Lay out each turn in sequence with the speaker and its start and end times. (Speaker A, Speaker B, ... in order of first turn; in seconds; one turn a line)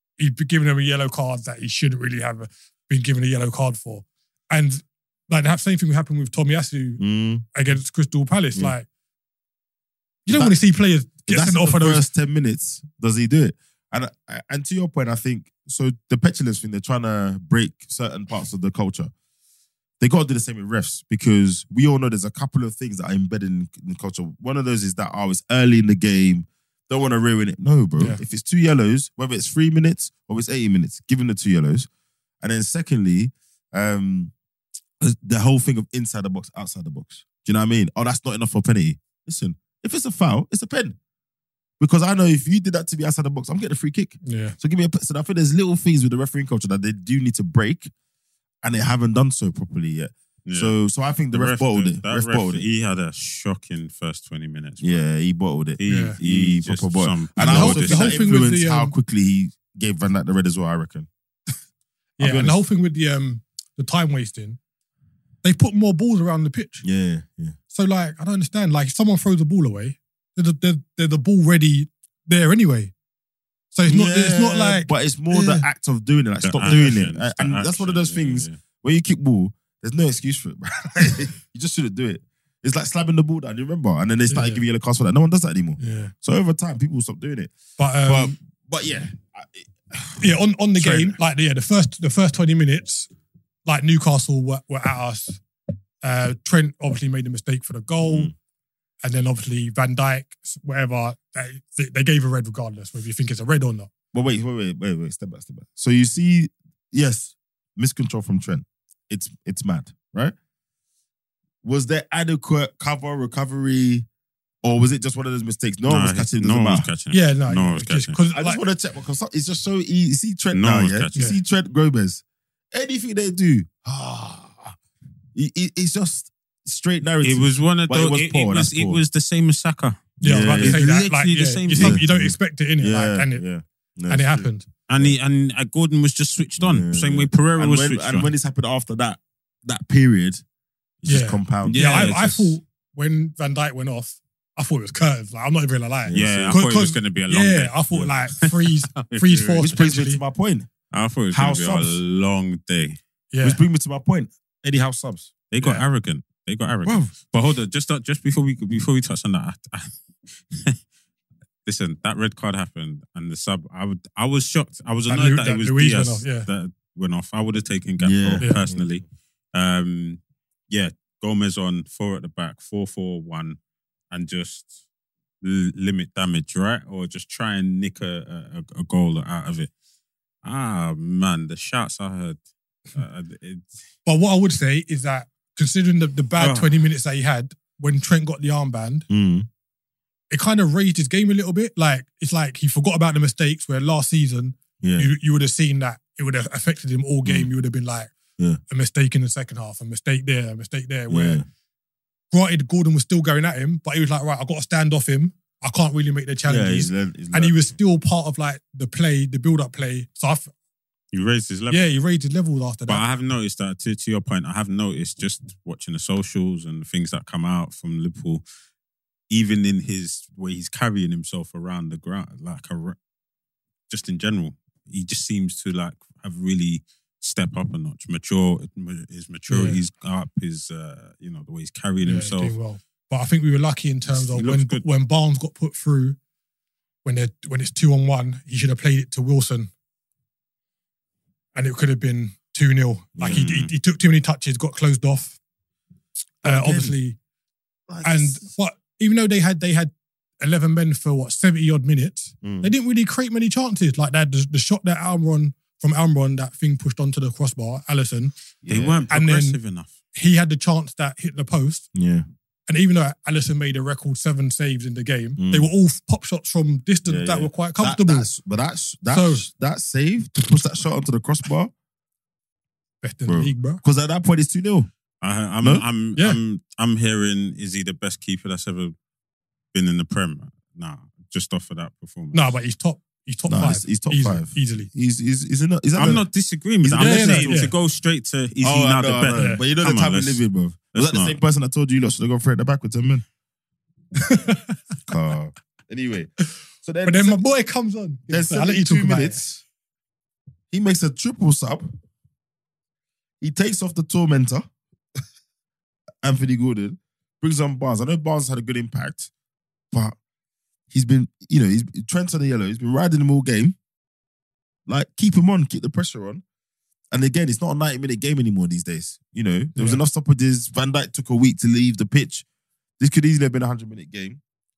Speaker A: 0.2-7.0
Speaker B: 7.0-7.5
Speaker A: 7.5-8.9
Speaker A: 10.3-12.0
Speaker B: 10.3-10.6
Speaker B: 11.3-19.1
Speaker B: 20.0-31.9
Speaker B: 32.4-34.3
Speaker B: 35.0-41.0
Speaker B: 41.8-47.9
Speaker A: 44.2-44.6
Speaker B: 48.6-52.6
Speaker C: 50.5-50.7
Speaker C: 51.3-55.0
Speaker B: 54.8-61.1
Speaker C: 55.8-58.3
Speaker A: 55.9-56.2
Speaker A: 57.4-59.0
Speaker A: 62.2-64.6
Speaker B: 62.2-62.6
Speaker A: 65.4-66.8
Speaker B: 66.8-67.6
Speaker A: 67.7-72.9
Speaker A: 73.7-75.7
Speaker B: 73.9-87.5
Speaker C: 76.4-78.6
Speaker A: 84.3-84.6
Speaker A: 85.8-86.1
Speaker A: 87.8-88.4
Speaker B: 88.0-91.2
Speaker A: 90.2-93.1
Speaker A: 93.7-95.4
Speaker A: 96.0-98.3
Speaker B: 98.0-98.3
Speaker A: 99.0-103.9
Speaker B: 104.1-110.3
Speaker B: 111.6-114.1
Speaker B: 114.6-116.9
Speaker C: 115.9-118.2
Speaker A: 117.1-118.6
Speaker B: 118.3-124.8
Speaker C: 120.5-121.1
Speaker B: 125.3-129.0
Speaker C: 127.2-132.0
Speaker B: 130.2-130.9
Speaker A: 130.2-133.4
Speaker B: 131.7-135.2
Speaker A: 134.1-134.7
Speaker C: 134.9-138.3
Speaker B: 136.6-140.4
Speaker B: 141.0-141.8
Speaker A: 141.1-150.2
Speaker C: 141.7-142.6
Speaker B: 146.1-146.6
Speaker C: 146.1-149.6
Speaker B: 149.6-150.7
Speaker C: 150.9-153.0
Speaker B: 151.3-152.0
Speaker A: 153.3-153.6
Speaker B: 153.4-155.3
Speaker C: 155.5-160.8
Speaker B: 156.8-157.2
Speaker C: 161.7-173.6
Speaker A: 165.1-166.5
Speaker B: 168.0-169.0
Speaker A: 168.4-168.7
Speaker C: 174.1-174.7
Speaker C: 175.4-179.7
Speaker C: 180.4-182.4
Speaker C: 182.9-183.7
Speaker A: 184.1-189.1
Speaker C: 186.4-186.8
Speaker B: 189.1-189.5
Speaker A: 190.3-198.1
Speaker B: 194.8-195.1
Speaker A: 198.7-201.4
Speaker B: 201.1-201.5
Speaker A: 202.3-210.5
Speaker B: 206.5-207.6
Speaker C: 211.1-211.8
Speaker A: 211.7-213.0
Speaker C: 212.9-218.4
Speaker C: 219.3-223.0
Speaker C: 223.9-232.6
Speaker A: 229.5-229.8
Speaker A: 232.0-236.2
Speaker C: 234.1-234.8
Speaker A: 237.0-239.7
Speaker A: 241.6-245.4
Speaker B: 243.2-243.5
Speaker C: 243.3-243.7
Speaker B: 246.4-247.0
Speaker A: 246.4-247.2
Speaker B: 247.9-248.5
Speaker A: 248.0-258.3
Speaker B: 252.4-252.7
Speaker B: 258.6-259.1
Speaker C: 258.7-259.9
Speaker A: 259.1-259.6
Speaker A: 260.1-261.9
Speaker B: 261.9-262.3
Speaker A: 262.7-268.3
Speaker B: 265.4-265.7
Speaker B: 267.1-271.7
Speaker A: 269.1-269.5
Speaker A: 273.0-273.8
Speaker B: 273.3-274.9
Speaker C: 275.2-278.9
Speaker C: 279.7-282.5
Speaker A: 282.3-284.9
Speaker B: 283.5-286.3
Speaker C: 285.9-290.4
Speaker B: 286.8-287.7
Speaker A: 287.0-287.8
Speaker B: 288.6-293.2
Speaker A: 289.4-289.6
Speaker C: 290.9-291.4
Speaker A: 294.2-294.8
Speaker B: 295.1-296.3
Speaker B: 296.8-297.4
Speaker A: 297.1-299.4
Speaker B: 298.3-299.6
Speaker B: 300.7-301.9
Speaker B: 303.4-304.6
Speaker B: 306.2-309.3
Speaker B: 309.9-310.2
Speaker B: 310.9-313.8
Speaker B: 314.9-316.4
Speaker B: 317.1-322.4
Speaker A: 319.8-320.0
Speaker B: 323.0-324.4